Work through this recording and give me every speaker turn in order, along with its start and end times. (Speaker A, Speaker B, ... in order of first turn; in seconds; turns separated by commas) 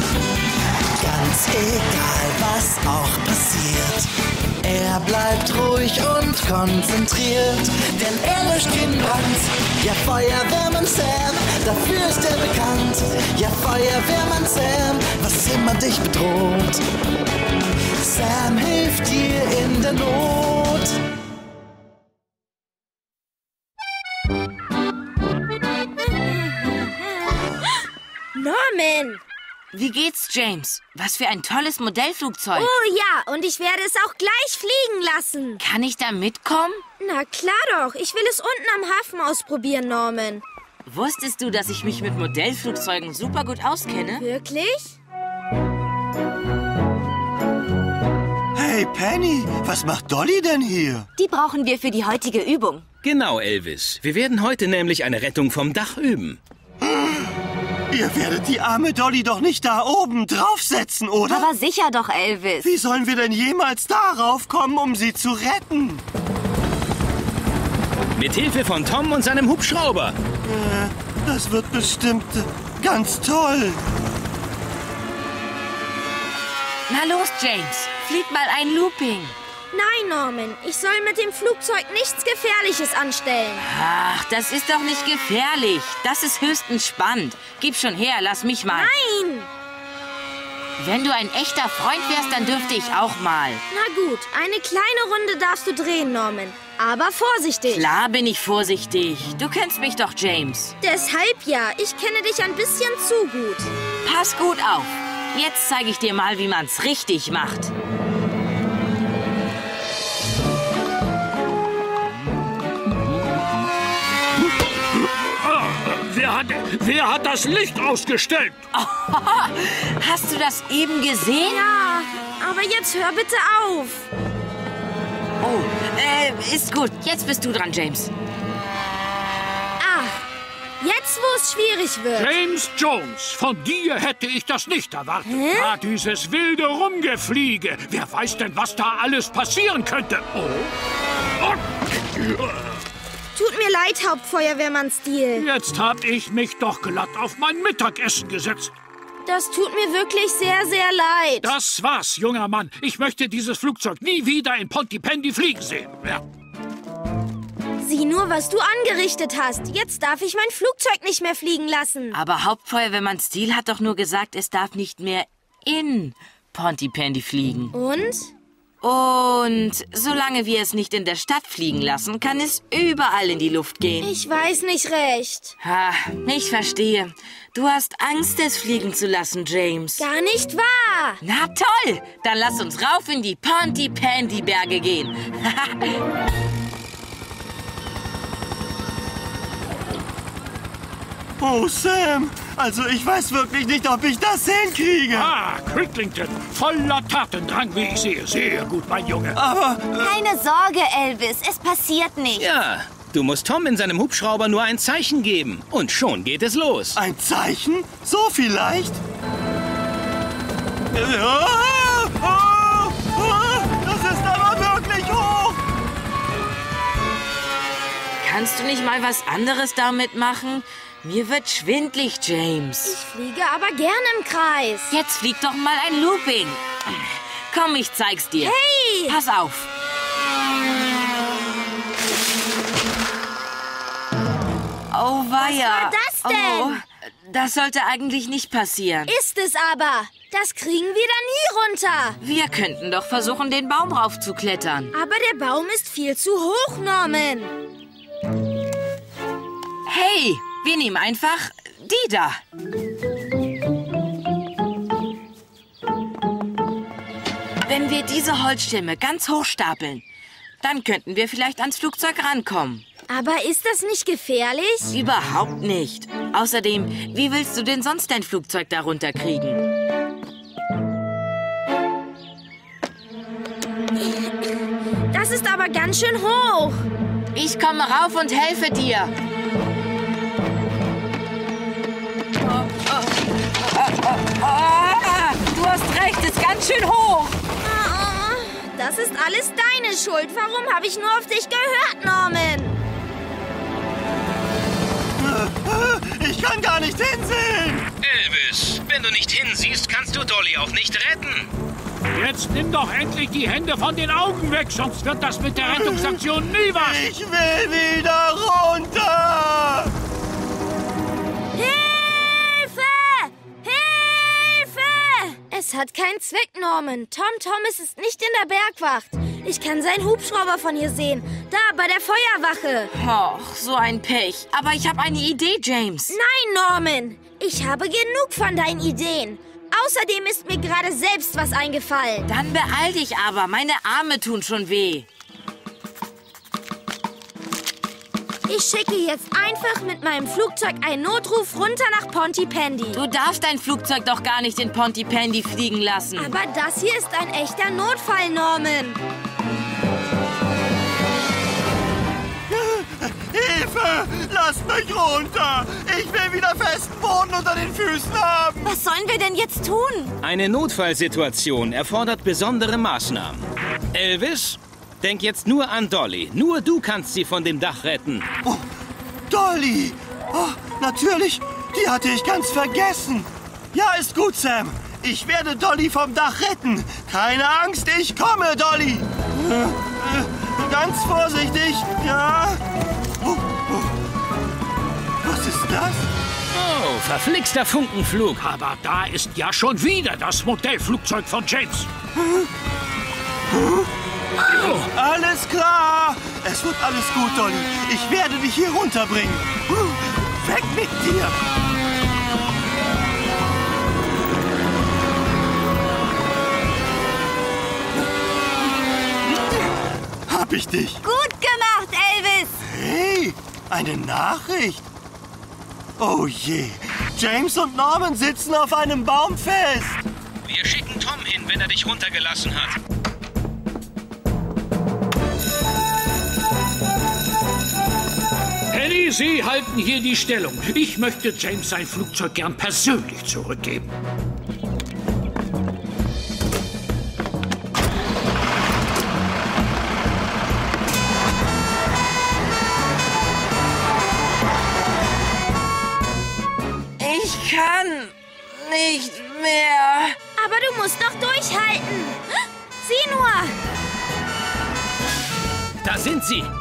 Speaker A: 1.0-4.1, Speaker A: 4.6-16.8, Speaker A: 18.0-20.9, Speaker B: 26.4-26.9, Speaker B: 28.3-29.2, Speaker C: 29.7-32.7, Speaker B: 32.5-35.6, Speaker C: 35.6-36.8, Speaker B: 37.0-40.4, Speaker C: 40.9-44.2, Speaker B: 44.1-45.0, Speaker D: 48.5-51.1, Speaker E: 51.2-52.8, Speaker F: 53.0-56.4, Speaker D: 57.9-61.5, Speaker E: 61.3-62.7, Speaker D: 62.6-66.0, Speaker F: 68.2-70.2, Speaker D: 70.4-73.8, Speaker C: 76.9-79.3, Speaker B: 79.7-83.7, Speaker C: 83.6-88.8, Speaker B: 88.7-89.5, Speaker C: 90.8-93.6, Speaker B: 93.7-98.0, Speaker C: 97.7-100.7, Speaker B: 100.8-103.7, Speaker C: 104.0-107.7, Speaker G: 115.0-118.6, Speaker C: 118.8-121.6, Speaker B: 121.4-124.1, Speaker C: 125.4-128.1, Speaker B: 129.8-130.2, Speaker B: 130.8-132.3, Speaker G: 132.1-140.7, Speaker B: 135.2-135.8, Speaker G: 142.2-142.7, Speaker B: 143.3-145.5, Speaker G: 145.3-148.7, Speaker B: 149.2-151.5, Speaker G: 151.4-156.2, Speaker B: 157.8-162.2, Speaker C: 162.1-167.7, Speaker B: 167.7-168.3, Speaker C: 168.8-174.1, Speaker B: 174.0-175.5, Speaker C: 175.6-180.0, Speaker B: 180.0-181.2, Speaker C: 181.2-185.9, Speaker D: 191.4-195.3, Speaker G: 195.1-199.4, Speaker D: 199.3-200.1, Speaker E: 200.0-202.4, Speaker F: 202.3-207.0, Speaker D: 206.9-209.0, Speaker D: 210.9-215.6, Speaker C: 218.2-222.9, Speaker B: 222.8-224.9, Speaker C: 224.9-226.7, Speaker C: 227.5-228.5, Speaker B: 228.4-229.2, Speaker C: 229.1-229.7, Speaker C: 234.9-239.1, Speaker B: 235.4-236.8, Speaker B: 239.1-242.2, Speaker C: 242.2-244.9, Speaker B: 244.9-247.5, Speaker C: 249.8-252.4, Speaker C: 257.6-260.0, Speaker C: 260.6-262.8, Speaker B: 263.1-264.9, Speaker C: 264.9-269.6, Speaker B: 275.1-276.9, Speaker C: 277.3-279.1, Speaker C: 282.6-287.4, Speaker B: 287.6-292.8, Speaker D: 295.2-297.9, Speaker F: 298.0-301.5, Speaker G: 302.1-307.0, Speaker D: 305.6-306.2, Speaker D: 306.7-309.9, Speaker B: 311.5-322.9, Speaker C: 322.9-326.1, Speaker B: 326.1-332.3, Speaker C: 332.3-335.1, Speaker B: 338.5-343.0, Speaker C: 342.9-346.3, Speaker B: 346.1-349.0, Speaker D: 352.5-358.8, Speaker E: 358.6-360.1, Speaker F: 360.2-368.3, Speaker D: 369.3-382.6, Speaker D: 383.2-383.9, Speaker D: 385.2-386.1, Speaker F: 386.5-388.4, Speaker G: 388.4-391.9, Speaker D: 392.1-392.5, Speaker D: 393.5-393.9, Speaker D: 394.4-401.4, Speaker F: 394.6-394.9, Speaker D: 410.3-411.0, Speaker E: 411.0-412.6, Speaker D: 412.6-414.8, Speaker D: 416.0-420.0, Speaker F: 420.4-422.8, Speaker G: 428.7-433.9, Speaker C: 447.0-450.2, Speaker B: 450.4-453.6, Speaker F: 455.8-456.5